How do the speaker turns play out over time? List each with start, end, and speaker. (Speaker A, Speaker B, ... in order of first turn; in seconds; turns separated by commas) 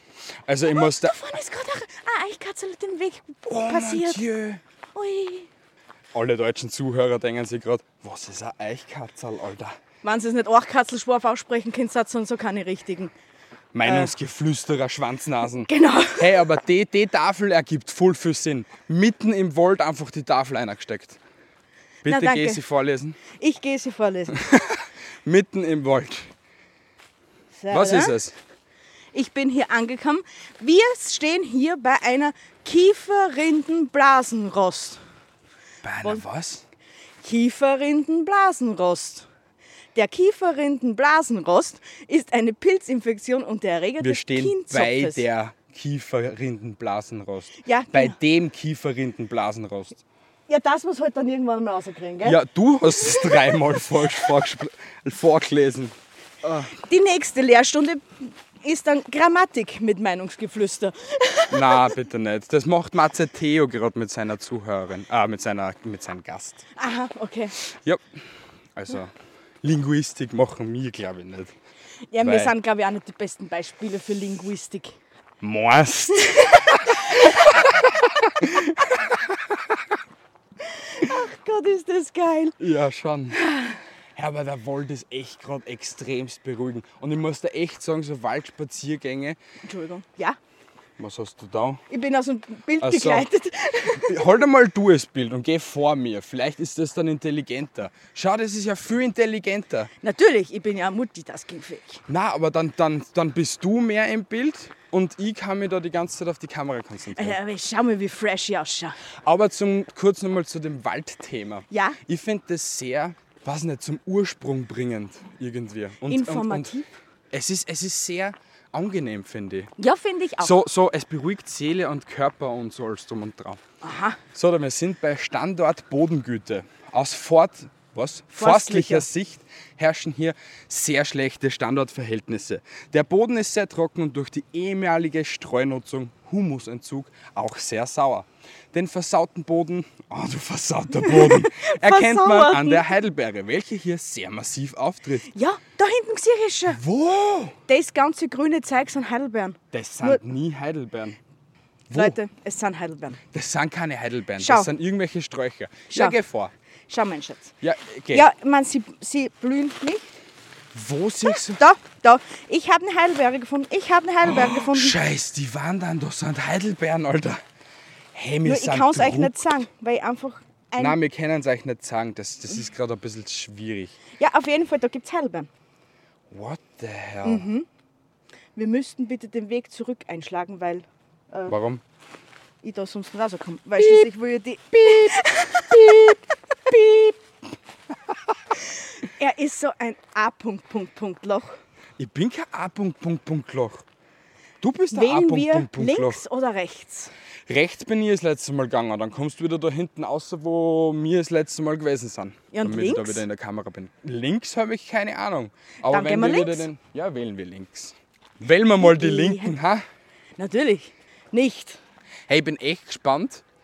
Speaker A: 0.5-1.4, Speaker B: 0.7-4.2, Speaker A: 3.5-4.6, Speaker B: 5.0-5.5, Speaker A: 6.1-9.8, Speaker B: 10.0-13.1, Speaker A: 13.7-21.2, Speaker B: 13.8-14.1, Speaker B: 15.7-16.4, Speaker A: 22.0-23.2, Speaker B: 22.1-22.6, Speaker B: 23.3-24.4, Speaker A: 24.4-26.3, Speaker B: 27.5-28.2, Speaker A: 27.7-28.4, Speaker B: 29.1-35.0, Speaker A: 35.8-36.7, Speaker B: 37.2-39.3, Speaker B: 40.0-45.2, Speaker A: 44.0-50.0, Speaker B: 47.6-48.2, Speaker B: 50.5-52.4, Speaker A: 52.2-56.7, Speaker B: 53.0-53.6, Speaker B: 56.7-62.0, Speaker A: 61.5-66.7, Speaker B: 66.8-67.6, Speaker A: 67.6-68.0, Speaker A: 68.8-71.5, Speaker B: 72.1-75.0, Speaker A: 72.2-72.5, Speaker A: 75.4-79.8, Speaker B: 76.2-77.5, Speaker B: 80.6-82.6, Speaker A: 82.6-83.4, Speaker B: 83.3-83.8, Speaker A: 84.2-89.4, Speaker B: 89.6-90.4, Speaker A: 91.0-91.8, Speaker B: 91.9-94.4, Speaker A: 92.8-93.3, Speaker A: 93.9-99.9, Speaker B: 100.0-102.0, Speaker A: 102.1-107.4, Speaker B: 107.1-109.0, Speaker A: 109.2-116.8, Speaker B: 111.7-112.0, Speaker B: 116.1-116.9, Speaker A: 117.3-119.7, Speaker B: 119.8-120.6, Speaker A: 120.4-123.6, Speaker B: 123.8-124.2, Speaker A: 124.3-145.3, Speaker B: 128.3-129.1, Speaker B: 141.0-142.9, Speaker B: 145.3-146.8, Speaker A: 146.7-147.6, Speaker B: 147.7-150.2, Speaker A: 149.7-151.2, Speaker A: 151.9-152.2, Speaker B: 151.9-153.2, Speaker A: 153.3-156.5, Speaker B: 154.4-154.7, Speaker B: 155.9-156.2, Speaker B: 156.9-157.5, Speaker A: 157.6-158.3, Speaker B: 158.1-160.1, Speaker A: 160.7-161.6, Speaker B: 161.5-165.0, Speaker A: 164.2-167.4, Speaker A: 168.1-169.7, Speaker B: 168.4-171.0, Speaker A: 170.8-174.0, Speaker B: 174.2-175.5, Speaker A: 176.3-177.5, Speaker B: 177.2-177.7, Speaker B: 178.6-181.6, Speaker A: 181.5-181.8, Speaker B: 182.6-187.2, Speaker A: 183.8-184.1, Speaker A: 184.8-186.2, Speaker B: 188.7-191.6, Speaker A: 192.0-193.8, Speaker A: 194.6-196.2, Speaker B: 194.9-197.1, Speaker A: 197.5-209.8, Speaker B: 202.5-203.2, Speaker B: 205.9-206.7, Speaker B: 208.8-209.6, Speaker B: 210.4-211.8, Speaker A: 212.3-213.4